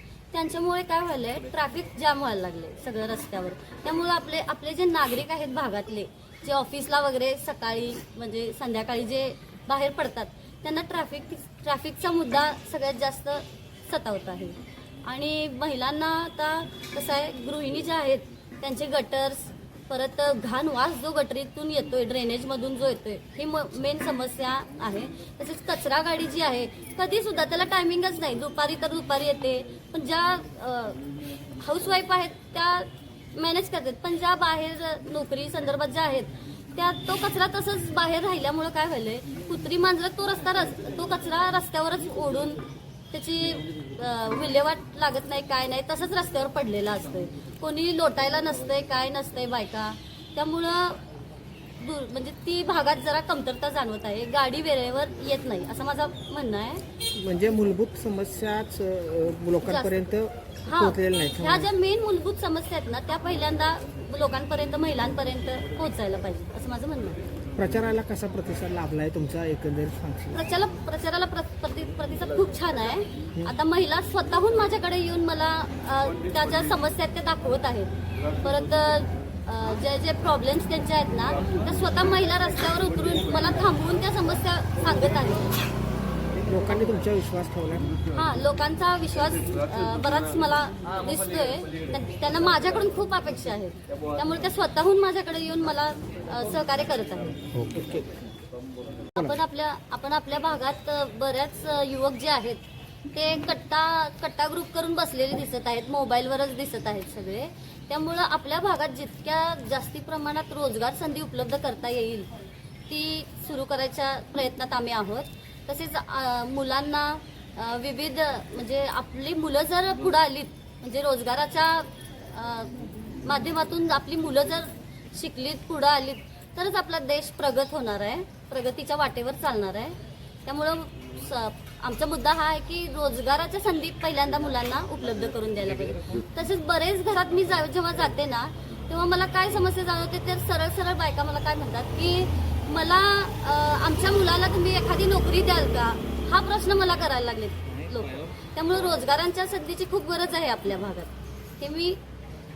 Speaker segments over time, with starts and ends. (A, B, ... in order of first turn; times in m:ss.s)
0:00.3-0:31.0 A
0:31.5-0:51.0 A
0:51.8-0:56.8 A
0:57.1-1:01.7 B
0:59.6-1:00.0 A
1:00.6-1:07.2 A
1:07.5-1:10.4 B
1:10.3-1:25.5 A
1:26.4-1:27.9 B
1:28.1-1:37.4 A
1:37.5-1:38.1 B
1:39.2-1:52.3 A
1:52.9-2:32.0 A